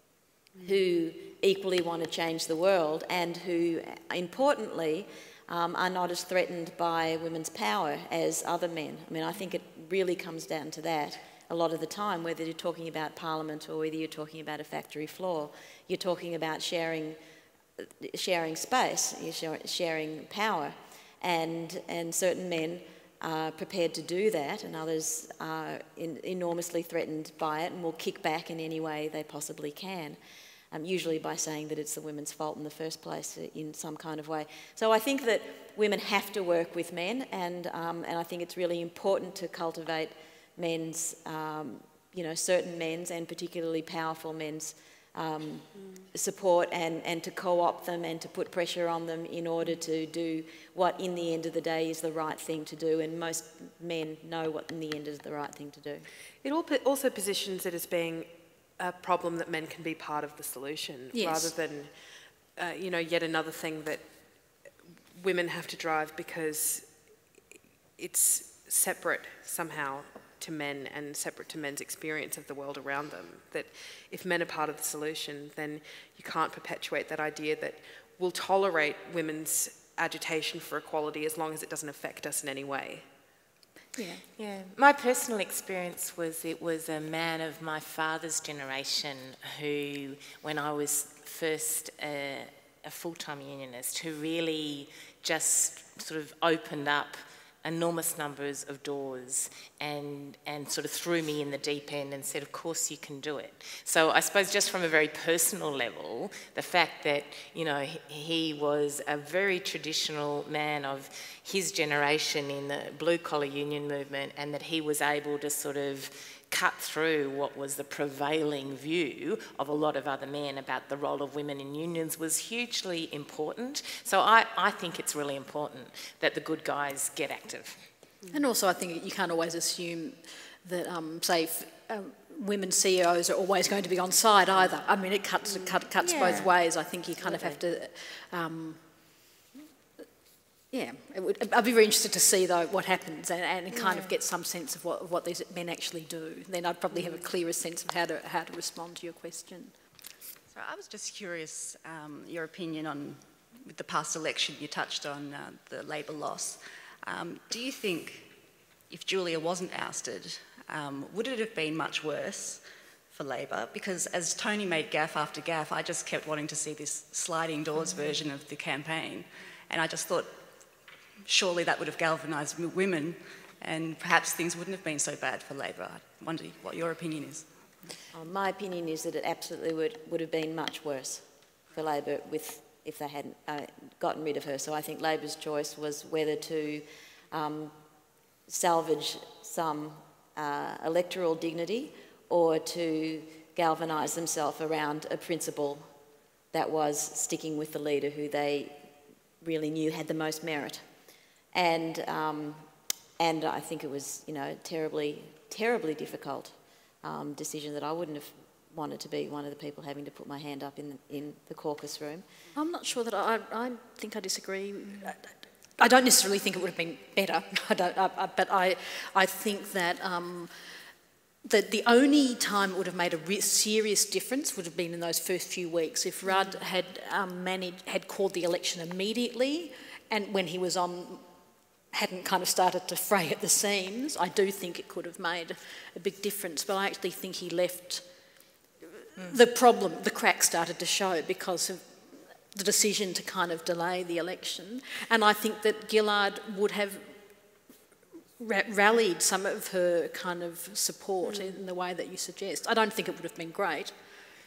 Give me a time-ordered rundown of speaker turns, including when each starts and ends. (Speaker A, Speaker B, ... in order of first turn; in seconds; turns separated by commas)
Speaker A: 0.6-17.2, Speaker A: 17.8-30.2, Speaker A: 30.7-56.1, Speaker B: 45.8-46.0, Speaker B: 56.4-64.6, Speaker C: 61.1-61.5, Speaker B: 65.2-67.0, Speaker B: 68.0-83.0, Speaker C: 84.0-84.2, Speaker D: 84.3-127.8, Speaker C: 128.3-138.8, Speaker D: 136.0-136.5, Speaker A: 137.2-137.6, Speaker C: 140.7-149.8, Speaker D: 143.8-144.1, Speaker E: 150.5-158.3, Speaker E: 158.9-170.4, Speaker E: 171.2-177.9, Speaker A: 178.1-187.8, Speaker A: 188.5-195.9, Speaker A: 196.5-198.8, Speaker A: 199.4-200.8, Speaker A: 201.5-202.7, Speaker A: 203.2-212.2, Speaker C: 212.5-220.5, Speaker C: 221.4-231.2, Speaker C: 231.9-238.1, Speaker C: 239.2-247.2, Speaker C: 248.4-253.9, Speaker B: 251.2-251.6